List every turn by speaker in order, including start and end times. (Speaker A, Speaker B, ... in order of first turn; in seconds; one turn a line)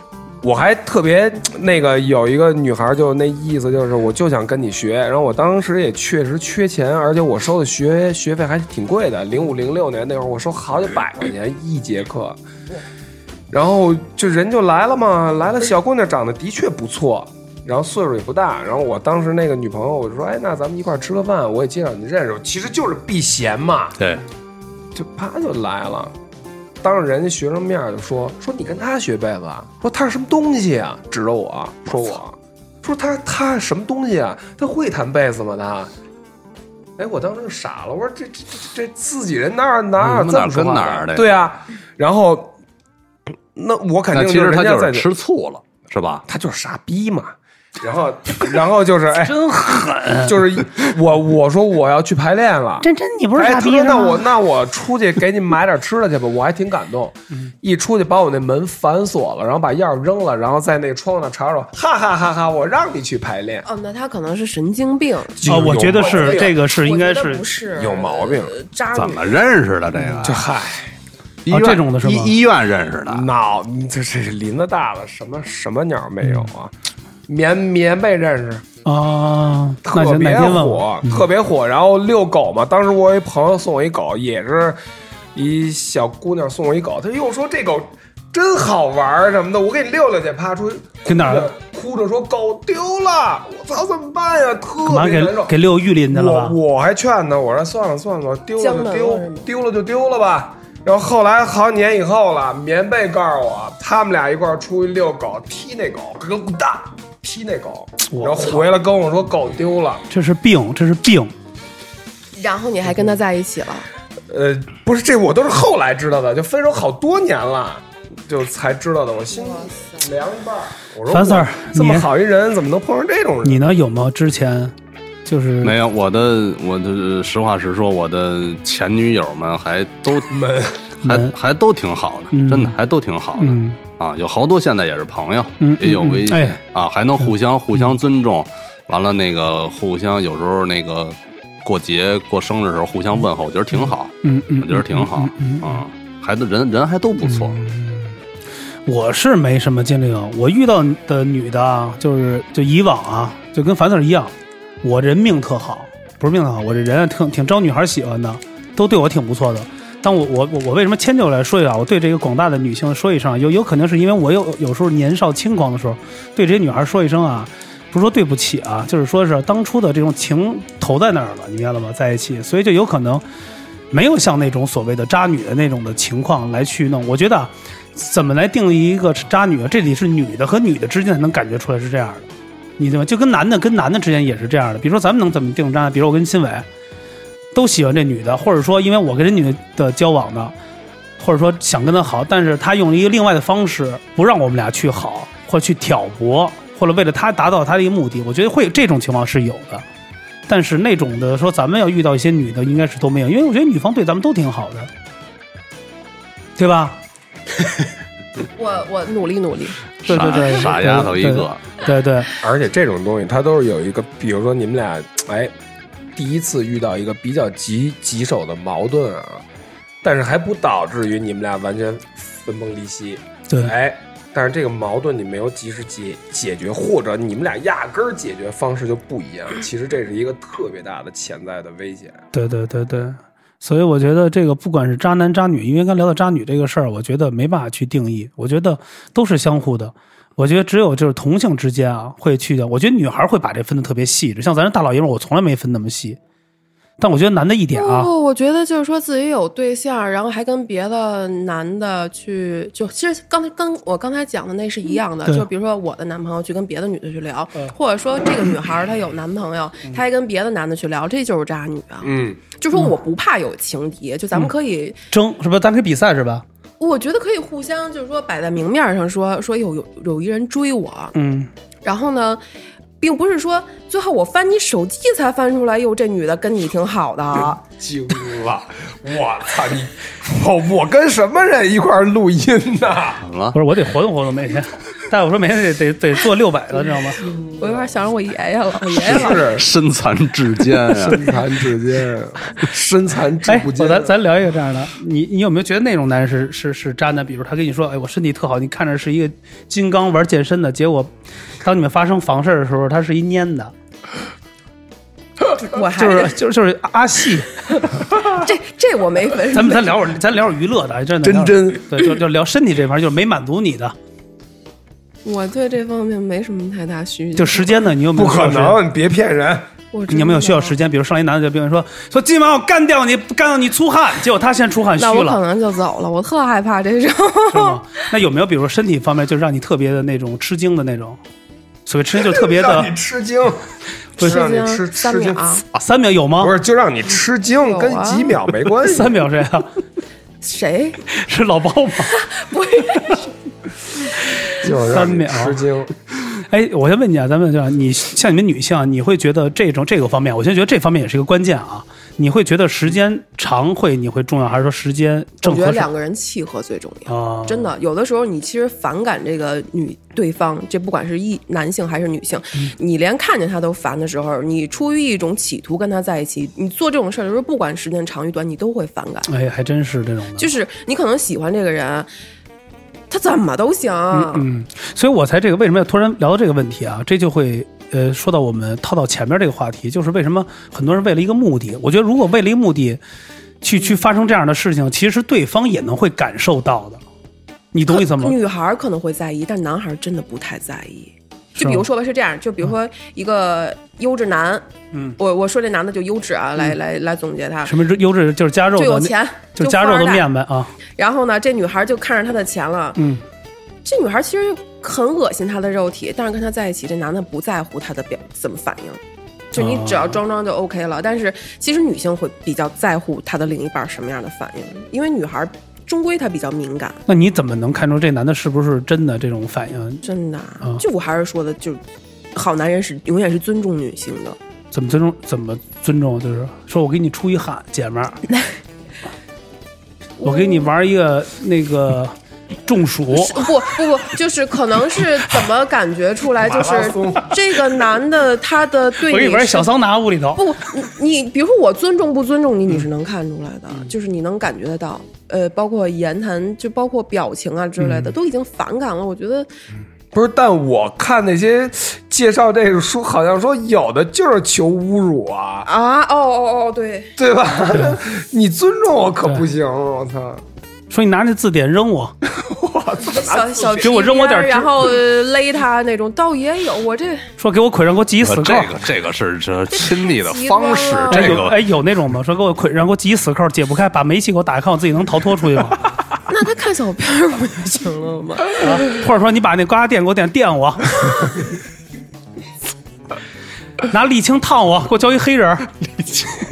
Speaker A: 0.4-12.4
Speaker A: 13.5-24.0
Speaker A: 24.9-26.1
Speaker A: 26.8-35.9
Speaker A: 37.0-42.5
Speaker B: 40.0-41.3
Speaker A: 43.5-45.1
Speaker B: 44.1-46.2
Speaker A: 46.3-49.4
Speaker C: 49.2-50.4
Speaker A: 50.2-63.6
Speaker C: 52.8-54.2
Speaker D: 63.6-69.4
Speaker A: 65.4-66.5
Speaker C: 65.5-67.4
Speaker A: 67.7-68.5
Speaker B: 68.9-70.5
Speaker A: 70.2-70.9
Speaker B: 71.4-73.3
Speaker C: 71.5-72.3
Speaker A: 73.1-76.7
Speaker A: 77.3-78.6
Speaker C: 78.8-81.2
Speaker A: 79.8-84.8
Speaker A: 85.3-95.6
Speaker C: 91.0-91.5
Speaker C: 94.8-96.5
Speaker A: 96.1-110.0
Speaker D: 98.6-99.5
Speaker C: 108.1-108.6
Speaker C: 110.1-111.3
Speaker D: 112.3-113.9
Speaker A: 114.3-123.6
Speaker D: 119.3-120.0
Speaker C: 121.1-122.1
Speaker C: 123.4-124.7
Speaker C: 125.2-125.7
Speaker B: 125.6-130.3
Speaker A: 130.2-130.8
Speaker B: 131.0-147.6
Speaker C: 131.0-131.3
Speaker C: 132.3-132.8
Speaker C: 133.4-133.8
Speaker C: 135.6-136.6
Speaker C: 143.7-145.8
Speaker C: 147.3-148.2
Speaker C: 148.8-173.2
Speaker C: 173.9-186.7
Speaker C: 187.5-190.5
Speaker C: 191.2-199.8
Speaker C: 200.5-204.9
Speaker C: 206.6-207.0
Speaker D: 208.5-209.8
Speaker B: 210.0-211.6
Speaker C: 210.1-212.3
Speaker A: 212.4-215.5
Speaker A: 216.1-219.4
Speaker A: 220.0-232.2
Speaker C: 232.3-246.2
Speaker C: 247.0-248.1
Speaker D: 247.7-265.0
Speaker A: 262.0-262.4
Speaker C: 265.1-266.4
Speaker D: 266.8-271.1
Speaker C: 271.1-271.5
Speaker D: 271.8-272.4
Speaker D: 273.0-277.6
Speaker A: 277.3-283.2
Speaker B: 283.2-283.5
Speaker C: 283.5-287.2
Speaker D: 287.3-289.5
Speaker A: 287.3-287.9
Speaker B: 288.9-291.2
Speaker A: 289.0-289.6
Speaker A: 291.0-294.1
Speaker C: 293.5-301.1
Speaker C: 301.6-303.7
Speaker D: 305.5-306.4
Speaker C: 305.9-307.9
Speaker D: 308.1-310.0
Speaker C: 309.5-313.9
Speaker A: 311.3-311.9
Speaker D: 315.2-317.8
Speaker C: 317.4-318.8
Speaker A: 318.1-319.7
Speaker D: 319.9-320.8
Speaker C: 320.1-325.4
Speaker D: 325.0-327.8
Speaker C: 327.5-331.2
Speaker C: 331.9-332.9
Speaker A: 332.2-335.4
Speaker D: 334.2-335.6
Speaker C: 335.7-336.6
Speaker A: 336.4-339.2
Speaker D: 337.6-338.4
Speaker C: 338.8-339.7
Speaker D: 340.4-341.0
Speaker C: 341.1-342.2
Speaker D: 342.1-343.3
Speaker A: 344.6-345.9
Speaker C: 344.7-345.6
Speaker C: 346.4-355.9
Speaker D: 355.4-369.3
Speaker C: 357.1-357.7
Speaker C: 369.3-370.5
Speaker D: 370.4-372.1
Speaker D: 373.1-374.5
Speaker C: 374.1-383.0
Speaker C: 383.6-387.0
Speaker C: 387.7-388.4
Speaker D: 387.9-394.6
Speaker C: 391.6-391.9
Speaker C: 394.9-395.2
Speaker D: 395.2-397.7
Speaker C: 397.6-400.7
Speaker D: 398.7-400.3
Speaker D: 400.9-403.0
Speaker C: 402.9-403.2
Speaker D: 403.8-409.0
Speaker D: 409.5-417.0
Speaker C: 409.5-410.2
Speaker C: 417.1-420.0
Speaker D: 420.0-421.8
Speaker D: 422.3-424.4
Speaker C: 424.7-428.2
Speaker D: 430.2-430.7
Speaker C: 430.2-433.4
Speaker D: 433.1-439.7
Speaker A: 436.4-437.5
Speaker C: 439.0-440.4
Speaker D: 440.4-449.5
Speaker C: 447.8-448.1
Speaker A: 450.1-455.7
Speaker D: 455.6-457.1
Speaker A: 457.2-460.4
Speaker C: 460.9-462.1
Speaker A: 462.2-464.0
Speaker D: 463.0-467.3
Speaker C: 463.8-464.8
Speaker C: 467.4-468.7
Speaker B: 468.2-471.6
Speaker D: 469.7-471.5
Speaker C: 471.1-475.9
Speaker D: 476.3-478.9
Speaker C: 478.6-481.0
Speaker C: 483.8-485.7